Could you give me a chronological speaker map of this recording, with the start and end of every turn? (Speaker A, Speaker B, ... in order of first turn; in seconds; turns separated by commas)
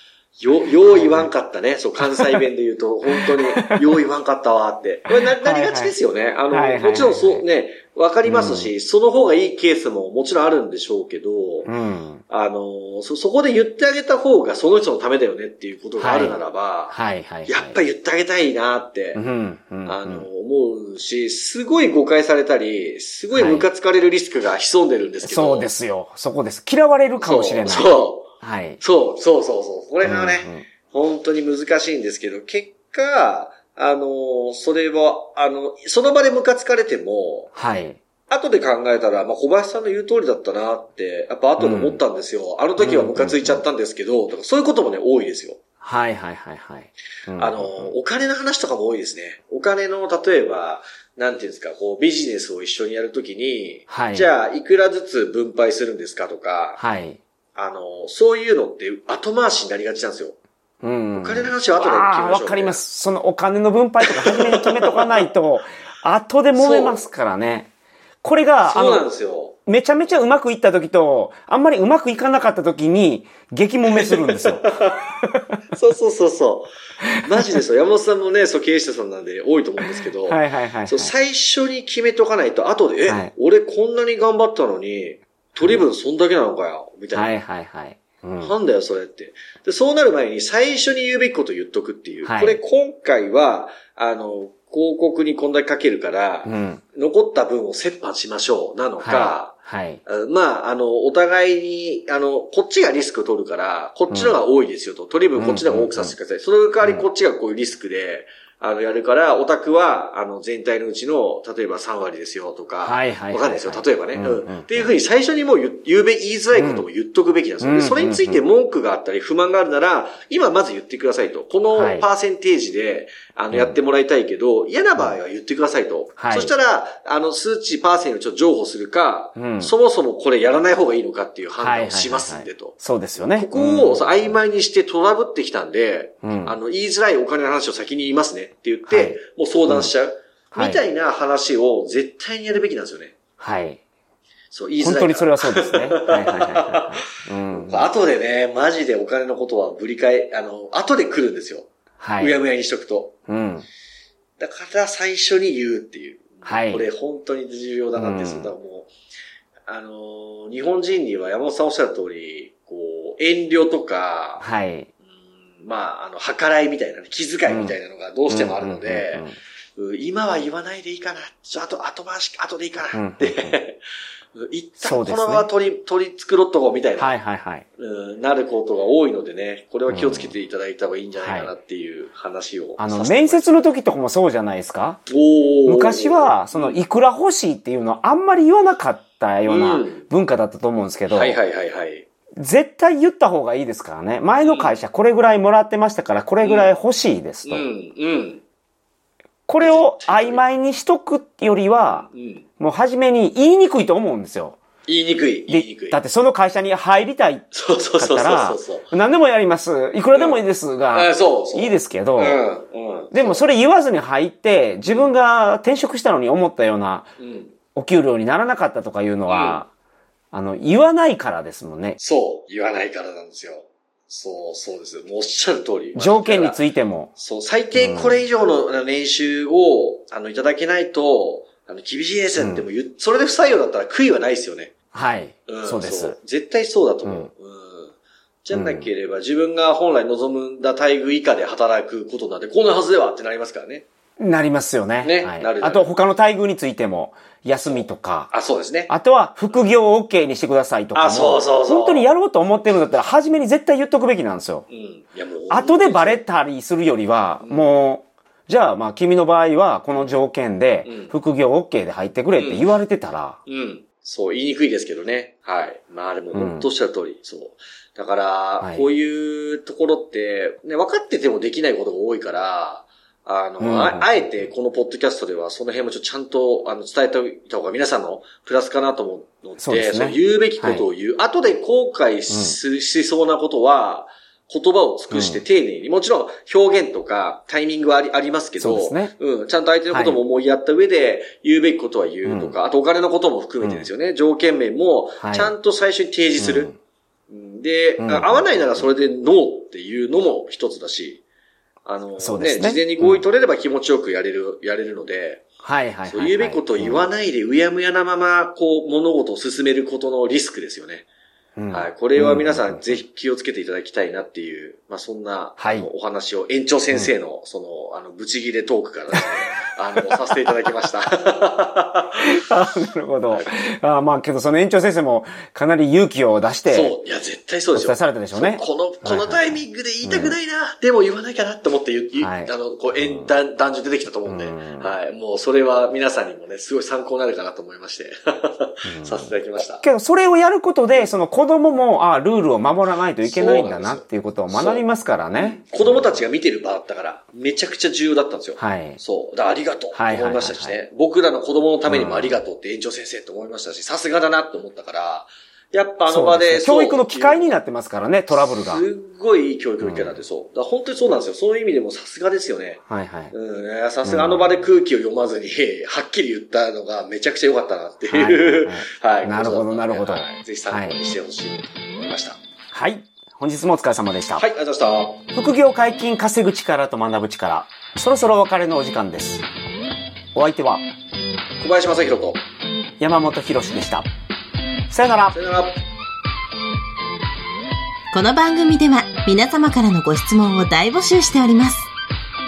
Speaker A: 0.4-11.7, Speaker B: 0.9-1.3, Speaker B: 2.0-2.4, Speaker B: 3.2-3.8, Speaker B: 5.1-6.0, Speaker B: 6.5-7.4, Speaker B: 8.2-8.7, Speaker B: 11.7-12.2, Speaker A: 12.3-19.2, Speaker B: 16.0-17.8, Speaker B: 19.1-20.3, Speaker A: 19.9-25.7, Speaker B: 23.3-23.7, Speaker B: 25.2-28.8, Speaker A: 27.2-37.5, Speaker B: 30.0-30.6, Speaker B: 37.5-38.0, Speaker A: 38.3-45.6, Speaker B: 41.6-42.0, Speaker B: 42.8-43.6, Speaker B: 45.8-47.9, Speaker A: 47.4-56.8, Speaker B: 53.9-54.3, Speaker B: 56.8-57.2, Speaker A: 57.5-60.4, Speaker B: 60.8-67.7, Speaker A: 61.1-62.8, Speaker A: 64.0-65.2, Speaker A: 66.5-67.0, Speaker B: 68.2-69.0, Speaker A: 68.6-69.6, Speaker B: 69.7-75.3, Speaker A: 73.9-75.0, Speaker A: 75.7-76.7, Speaker B: 77.0-77.6, Speaker A: 77.2-87.3, Speaker B: 80.2-81.1, Speaker B: 83.1-83.3, Speaker B: 85.6-85.9, Speaker B: 87.1-88.5, Speaker A: 88.4-132.8, Speaker B: 92.2-92.6, Speaker B: 96.5-96.8, Speaker B: 99.0-100.0, Speaker B: 104.1-104.4, Speaker B: 105.4-106.2, Speaker B: 112.8-114.9, Speaker B: 116.5-116.9, Speaker B: 117.6-118.4, Speaker B: 121.7-122.0, Speaker B: 123.5-123.8, Speaker B: 126.2-126.5, Speaker B: 129.4-129.7, Speaker B: 131.6-134.4, Speaker A: 133.3-143.2, Speaker B: 136.2-136.6, Speaker B: 138.9-139.9, Speaker B: 140.5-140.8, Speaker B: 143.4-143.8, Speaker A: 144.5-146.9, Speaker B: 144.8-147.9, Speaker A: 147.5-153.2, Speaker B: 152.0-152.4, Speaker B: 153.3-153.7, Speaker A: 154.4-158.9, Speaker B: 156.4-156.9, Speaker B: 158.0-158.5, Speaker A: 159.7-164.5, Speaker B: 164.4-164.9, Speaker A: 165.6-173.8, Speaker B: 167.5-167.8, Speaker B: 168.3-169.3, Speaker B: 172.9-173.6, Speaker A: 174.3-177.2, Speaker B: 174.8-175.5, Speaker B: 177.0-177.7, Speaker A: 177.8-183.6, Speaker B: 179.9-180.3, Speaker B: 181.2-181.5, Speaker B: 182.8-185.0, Speaker A: 185.1-186.8, Speaker B: 185.7-191.4, Speaker A: 189.5-190.0, Speaker A: 191.1-192.1, Speaker B: 192.4-197.7, Speaker A: 194.4-194.8, Speaker A: 196.4-196.8, Speaker A: 197.5-198.4, Speaker B: 199.5-202.1, Speaker A: 199.6-200.4, Speaker A: 201.8-202.5, Speaker B: 202.6-204.6, Speaker A: 204.9-206.0, Speaker B: 205.5-212.4, Speaker A: 207.5-208.9, Speaker A: 210.1-213.4, Speaker B: 213.1-217.1, Speaker A: 217.2-217.5, Speaker B: 217.8-219.7, Speaker A: 219.3-219.6, Speaker B: 220.3-222.0, Speaker A: 222.0-226.6, Speaker B: 225.9-227.1, Speaker A: 227.2-234.7, Speaker B: 227.7-228.2, Speaker B: 232.4-232.7, Speaker B: 234.9-236.2, Speaker A: 235.5-243.9, Speaker B: 237.0-237.3, Speaker B: 238.5-238.9, Speaker B: 244.2-248.3, Speaker A: 245.0-245.9, Speaker A: 247.7-248.9, Speaker B: 248.9-254.7, Speaker A: 250.9-252.1, Speaker A: 254.7-256.2, Speaker B: 255.5-263.4, Speaker A: 257.4-257.7, Speaker A: 260.9-261.1, Speaker A: 262.4-262.6, Speaker A: 263.5-296.7, Speaker B: 266.3-266.7, Speaker B: 268.6-268.9, Speaker B: 273.6-274.5, Speaker B: 279.6-280.9, Speaker B: 282.3-282.6, Speaker B: 285.1-285.4, Speaker B: 288.6-289.1, Speaker B: 289.9-290.2, Speaker B: 292.2-292.6, Speaker B: 293.6-293.9, Speaker B: 295.2-295.5, Speaker B: 296.4-296.8, Speaker A: 297.3-301.2, Speaker B: 298.0-298.9, Speaker A: 301.9-305.4, Speaker B: 302.2-303.2, Speaker B: 305.6-307.0, Speaker A: 306.1-311.1, Speaker B: 311.6-313.0, Speaker A: 311.7-322.3, Speaker B: 315.6-315.9, Speaker B: 320.0-320.7, Speaker B: 322.2-326.9, Speaker A: 326.7-339.8, Speaker B: 327.7-330.4, Speaker B: 332.2-333.3, Speaker B: 334.2-334.9, Speaker B: 338.8-346.2, Speaker A: 343.2-357.6, Speaker B: 348.6-349.0, Speaker B: 349.9-350.8, Speaker B: 351.9-352.4, Speaker B: 356.1-358.9, Speaker A: 358.3-372.4, Speaker B: 359.8-360.2, Speaker B: 362.9-363.3, Speaker B: 364.1-364.6, Speaker B: 368.1-371.0, Speaker B: 372.7-374.4, Speaker A: 374.4-375.2, Speaker B: 375.3-379.5, Speaker B: 380.4-380.8, Speaker A: 381.6-382.4, Speaker B: 383.0-384.1, Speaker B: 384.9-385.4, Speaker A: 385.3-385.8, Speaker C: 388.1-391.9